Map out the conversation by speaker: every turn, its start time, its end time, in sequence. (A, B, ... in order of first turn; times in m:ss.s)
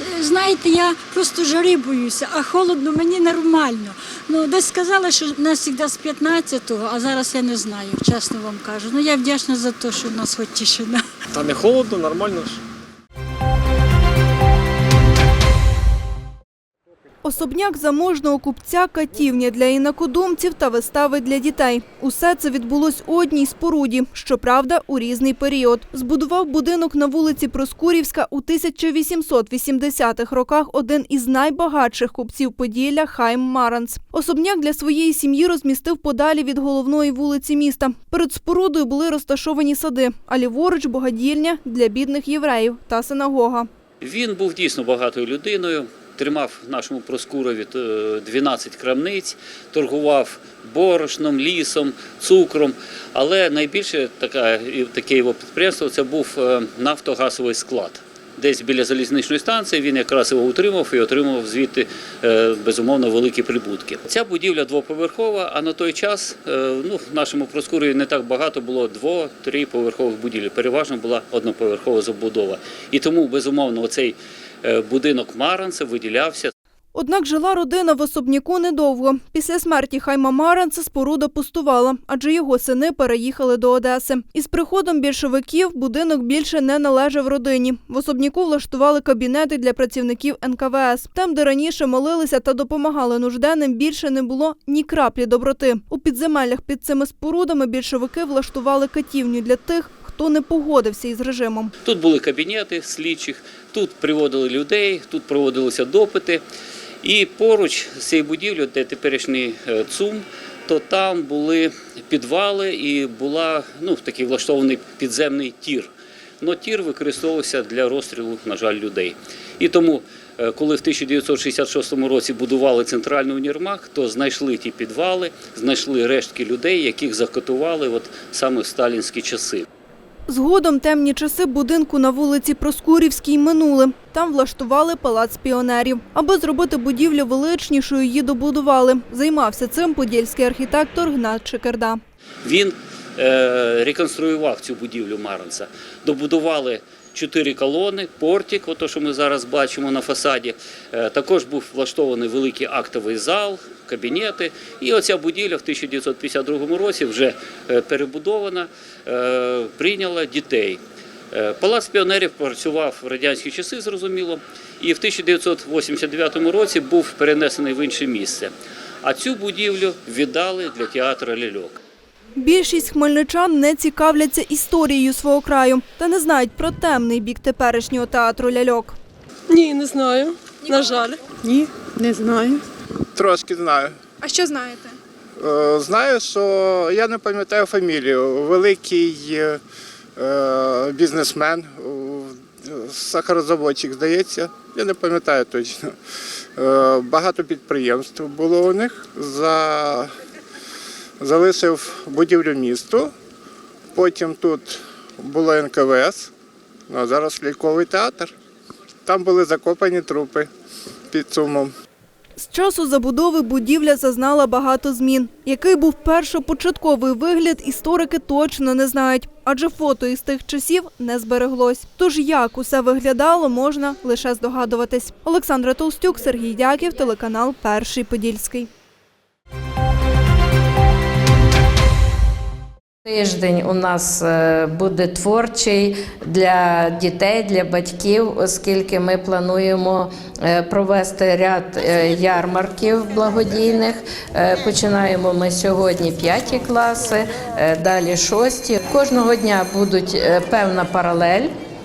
0:00.1-0:11.0 A
0:11.4-0:12.5 B
0:17.2-0:43.7 C
0:44.0-1:16.5 D
1:16.9-1:41.7 C
1:41.8-1:46.4 D
1:47.0-1:55.9 D
1:56.4-2:09.6 D
2:10.3-2:22.0 C
2:22.4-2:40.8 D
2:41.3-2:48.5 D
2:49.0-2:51.8 D
2:52.4-2:59.0 C
2:59.6-3:01.6 E
3:03.2-3:03.9 F
3:05.4-3:09.5 F
3:08.7-3:08.9 B
3:10.2-3:12.3 F
3:11.0-3:11.8 B
3:13.0-3:15.8 F
3:16.6-3:20.0 F
3:18.2-3:18.7 B
3:21.2-3:23.1 F
3:24.0-3:26.3 F
3:26.9-3:28.3 F
3:29.1-3:30.5 F
3:31.1-3:31.7 F
3:32.4-3:48.7 C
3:53.0-4:11.5 G